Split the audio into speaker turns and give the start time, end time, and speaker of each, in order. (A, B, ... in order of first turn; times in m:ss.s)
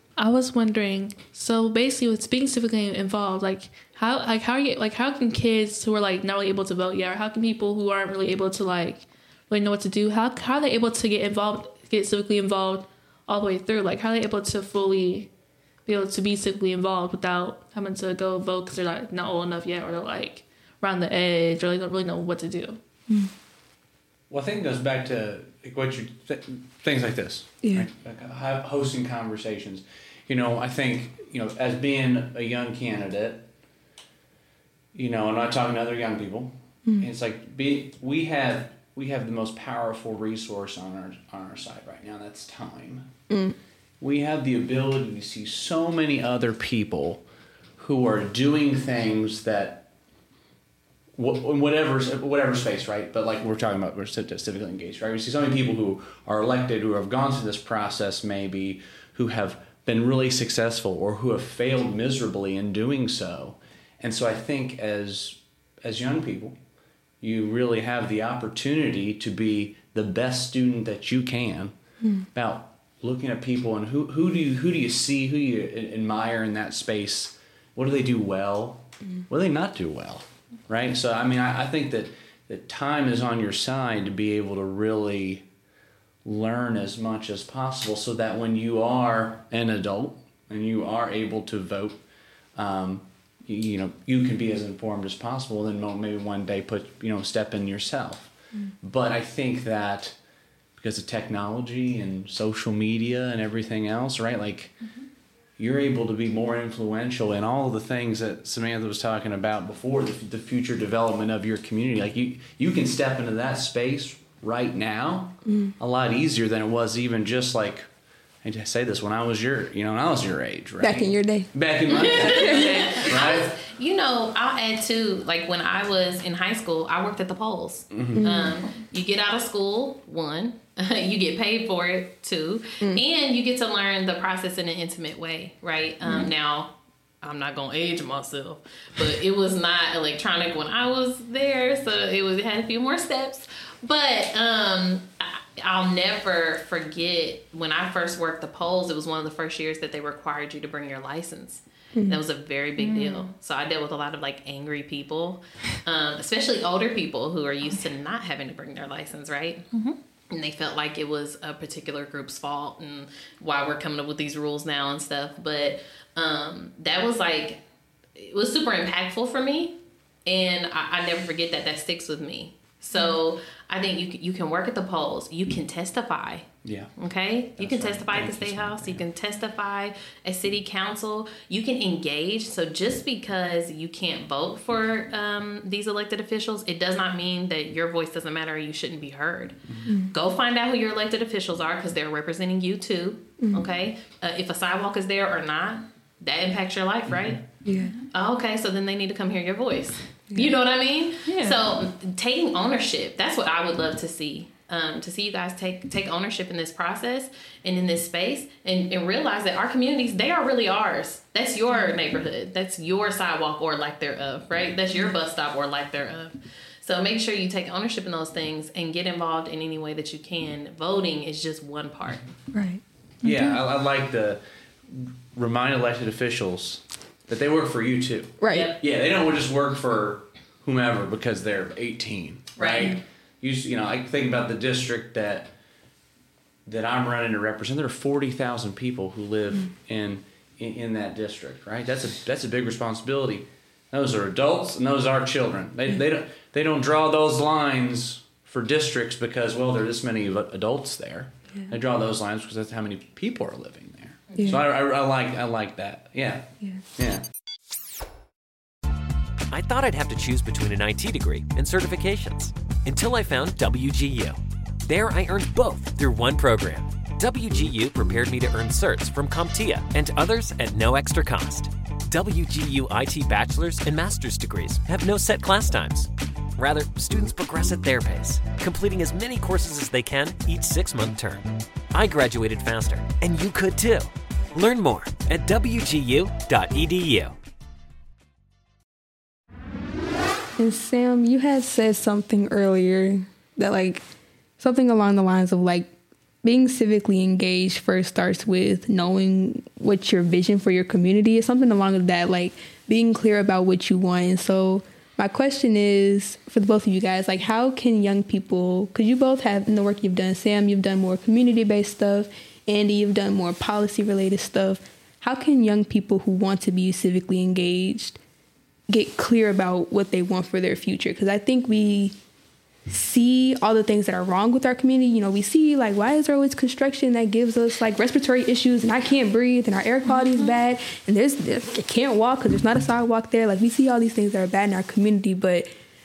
0:00.2-0:15.3 A
0:15.8-0:22.8 A
0:24.3-0:33.5 B
0:27.6-0:27.9 C
0:34.9-0:43.1 B
0:43.3-0:43.6 C
0:44.0-0:47.2 B
0:47.8-0:49.9 B
0:51.2-1:06.6 B
1:07.2-1:11.7 B
1:12.0-1:12.3 C
1:12.3-1:25.4 B
1:26.2-1:32.0 B
1:32.6-1:40.2 B
1:40.7-1:44.8 B
1:45.6-1:57.8 B
1:55.4-1:55.7 C
1:58.4-2:03.5 B
2:00.8-2:02.7 C
2:01.9-2:39.6 D
2:07.9-2:08.3 B
2:08.2-2:08.5 C
2:16.0-2:16.3 C
2:31.9-2:32.2 C
2:32.8-2:33.3 A
2:39.7-2:40.0 A
2:40.3-2:47.6 D
2:48.2-2:56.5 D
2:56.6-2:56.9 B
2:57.0-3:09.6 D
2:57.6-2:59.0 B
3:10.1-3:17.4 D
3:13.4-3:13.7 C
3:17.6-3:17.9 C
3:17.8-3:18.0 A
3:18.1-3:42.2 D
3:21.2-3:21.6 A
3:42.5-3:43.3 C
3:43.2-3:55.5 B
3:48.4-3:48.7 C
3:48.5-3:48.8 D
3:52.6-3:52.9 D
3:56.6-4:17.2 B
4:14.3-4:14.6 D
4:14.4-4:14.6 C
4:19.5-4:47.3 E
4:50.6-4:54.0 C
4:54.6-4:55.9 C
4:56.4-5:18.2 C
5:18.9-5:22.2 C
5:22.9-5:35.7 C
5:30.1-5:30.6 A